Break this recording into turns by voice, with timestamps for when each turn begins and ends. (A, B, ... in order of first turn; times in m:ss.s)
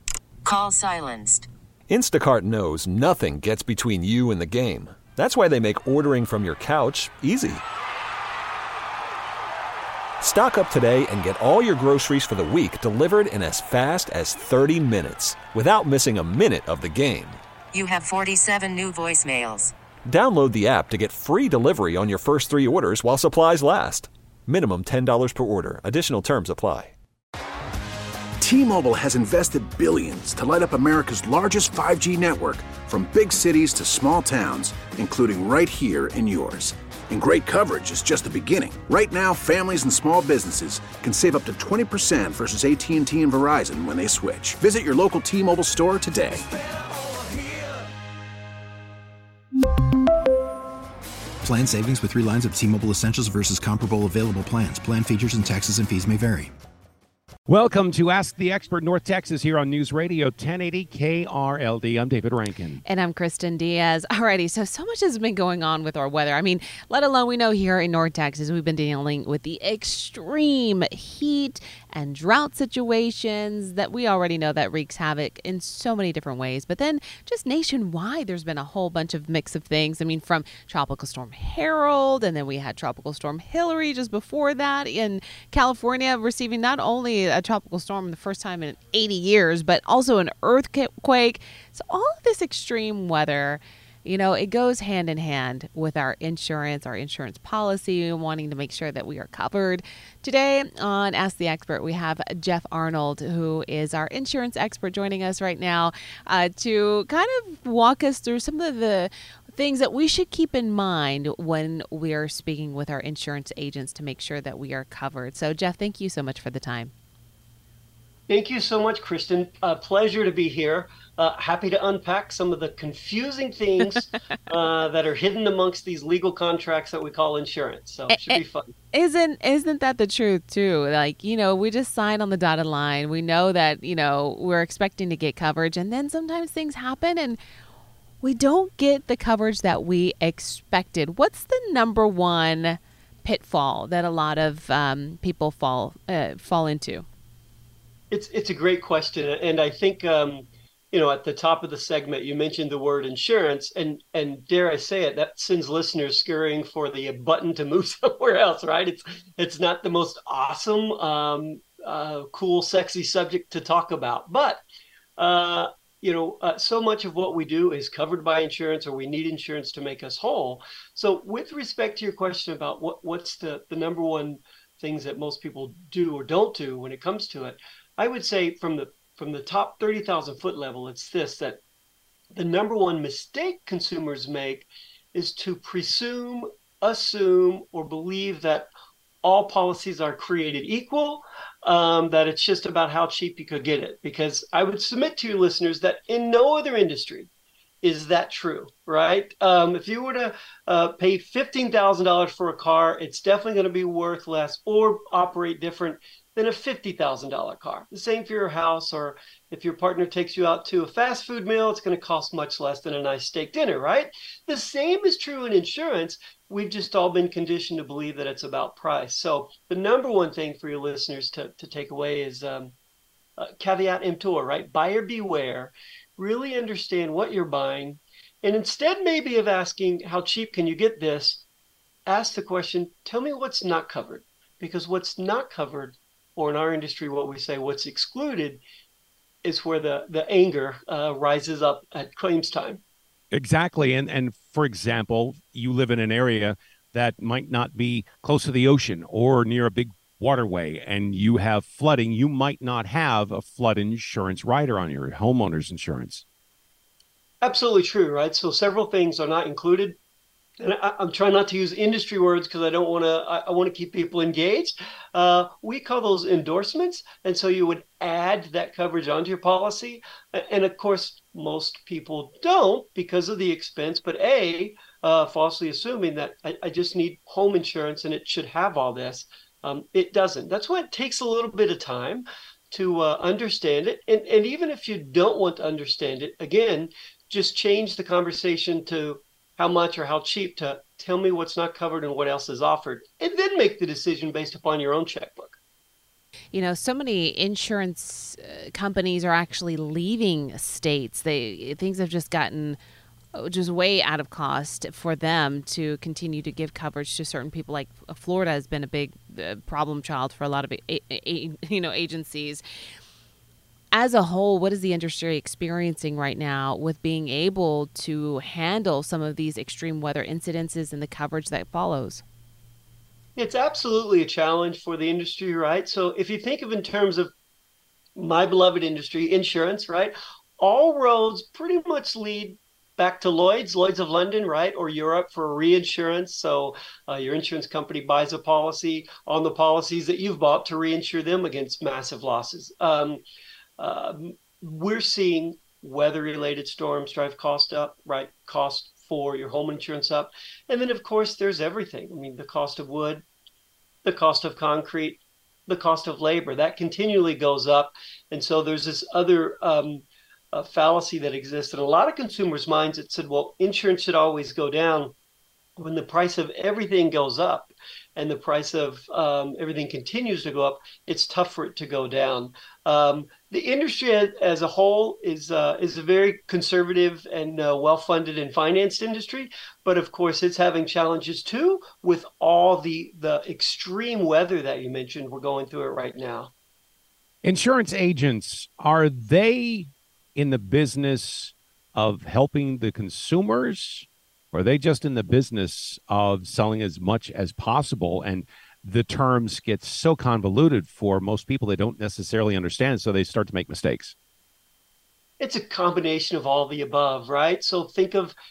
0:00.4-0:01.5 A
0:01.9-0:07.6 B
0:10.2-0:17.4 B
0:17.7-0:19.7 A
0:20.1-0:26.9 B
0:28.4-0:46.4 C
0:51.4-0:56.5 D
0:57.5-1:02.8 E
1:02.8-1:56.9 F
1:58.3-2:08.7 G
2:08.1-2:08.4 F
2:08.9-2:17.4 F
2:18.2-2:27.1 F
2:28.1-2:44.6 G
2:45.2-3:01.6 G
3:02.4-3:08.7 G
3:09.2-3:17.3 G
3:17.8-3:42.8 G
3:43.4-3:51.4 G
3:52.1-3:58.6 G
3:59.4-4:02.8 G
4:03.3-4:16.2 E
4:17.4-4:20.0 G
4:20.6-4:55.6 G
4:56.5-5:02.8 F
5:03.3-5:12.6 F
5:13.9-5:22.2 F
5:23.4-5:27.3 G
5:28.2-5:43.2 G
5:43.8-5:53.2 G
5:54.0-6:05.1 G
6:05.8-6:26.5 G
6:27.4-6:44.1 E
6:45.4-6:48.4 G